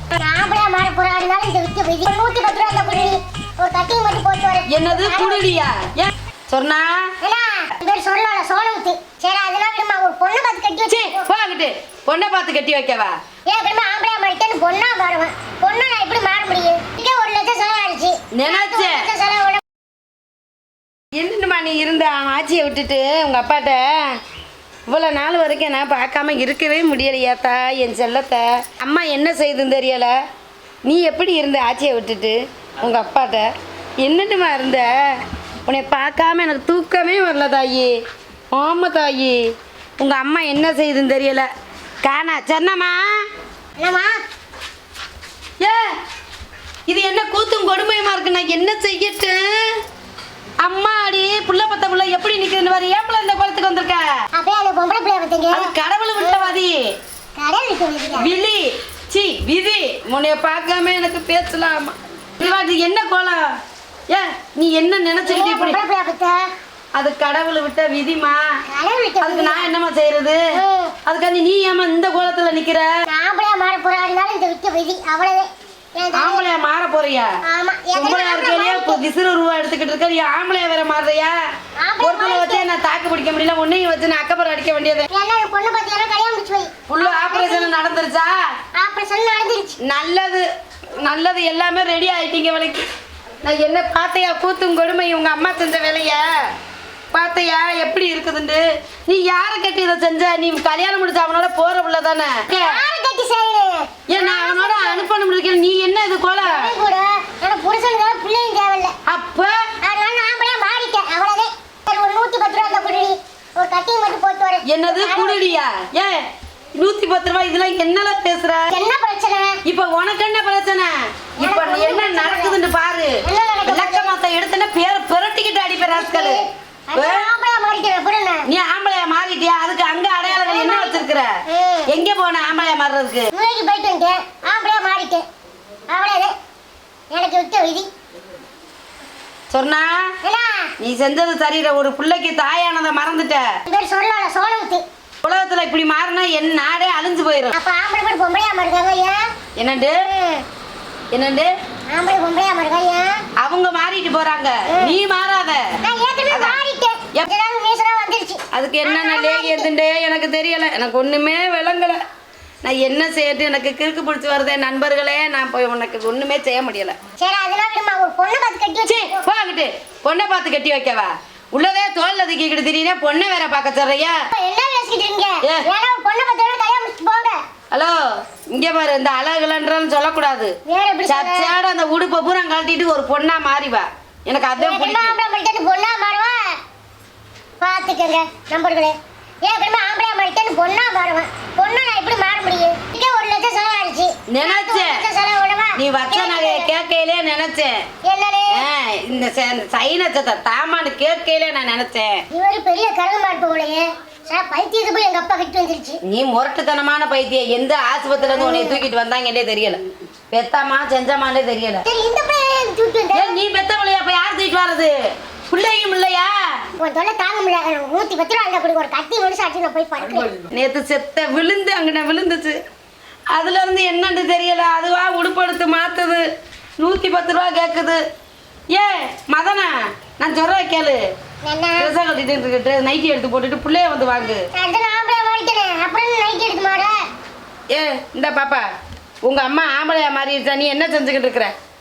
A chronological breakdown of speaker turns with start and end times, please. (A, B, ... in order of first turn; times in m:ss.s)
0:00.2-0:05.5 A
0:04.7-0:07.1 B
0:07.2-0:11.3 A
0:10.9-0:13.2 B
0:13.5-0:19.6 A
0:18.3-0:19.1 B
0:21.2-0:23.9 B
0:24.9-0:30.1 B
0:30.8-0:33.5 B
0:34.0-0:35.0 B
0:35.7-0:37.9 B
0:38.5-0:39.4 B
0:40.0-0:41.4 B
0:42.0-0:43.0 B
0:43.8-0:44.1 A
0:45.6-0:45.9 B
0:46.9-0:49.7 B
0:50.6-0:54.0 B
0:54.3-0:56.6 A
0:55.5-0:56.8 B
0:57.4-0:58.3 A
0:58.2-1:03.5 B
1:04.1-1:05.8 B
1:05.2-1:06.4 A
1:07.0-1:08.4 B
1:08.7-1:09.7 A
1:09.2-1:10.5 B
1:10.5-1:11.0 A
1:11.1-1:12.9 B
1:13.1-1:16.5 A
1:16.1-1:17.3 B
1:17.5-1:19.0 A
1:18.0-1:21.4 B
1:21.8-1:22.6 A
1:22.0-1:25.1 B
1:25.1-1:27.7 A
1:26.9-1:28.4 B
1:28.8-1:29.8 A
1:29.8-1:30.4 B
1:31.0-1:32.9 B
1:33.4-1:36.3 B
1:37.1-1:42.8 B
1:42.5-1:45.1 A
1:44.1-1:46.7 B
1:46.4-1:49.0 A
1:49.1-1:49.6 B
1:49.8-1:55.6 A
1:54.7-1:56.2 B
1:56.8-1:58.7 B
1:58.7-1:59.6 A
1:59.6-2:06.4 B
2:01.4-2:02.6 A
2:03.2-2:04.1 A
2:05.9-2:08.4 A
2:07.0-2:07.2 B
2:08.5-2:13.3 B
2:10.2-2:11.9 A
2:13.3-2:15.2 A
2:15.9-2:16.3 A
2:17.1-2:17.9 A
2:19.5-2:20.1 B
2:20.2-2:20.7 A
2:20.8-2:23.5 B
2:23.7-2:24.8 A
2:25.2-2:27.6 B
2:27.5-2:29.2 A
2:29.6-2:30.0 B
2:30.1-2:30.4 A
2:31.1-2:31.5 B
2:31.9-2:33.2 A
2:33.4-2:35.6 B
2:34.7-2:35.0 A
2:35.8-2:39.7 A
2:36.3-2:36.6 B
2:38.5-2:42.0 B
2:42.6-2:47.0 B
2:47.2-2:49.3 A
2:48.9-2:54.2 B
2:54.3-2:57.4 A
2:57.7-3:00.5 B
3:00.7-3:01.6 A
3:01.1-3:05.1 B
3:04.6-3:06.4 A
3:07.6-3:16.7 A
3:14.3-3:15.0 B
3:15.8-3:17.8 B
3:18.0-3:18.7 A
3:18.5-3:22.2 B
3:22.3-3:26.0 A
3:26.0-3:29.8 B
3:28.2-3:28.8 A
3:30.3-3:31.8 B
3:31.9-3:33.4 A
3:33.1-3:34.9 B
3:35.5-3:36.4 B
3:36.8-3:40.4 A
3:40.4-3:42.6 B
3:43.3-3:46.2 B
3:46.8-3:48.0 B
3:48.7-3:51.0 B
3:51.4-3:51.9 A
3:51.8-3:54.4 B
3:54.5-3:57.0 A
3:57.7-3:58.7 B
3:59.2-4:01.5 B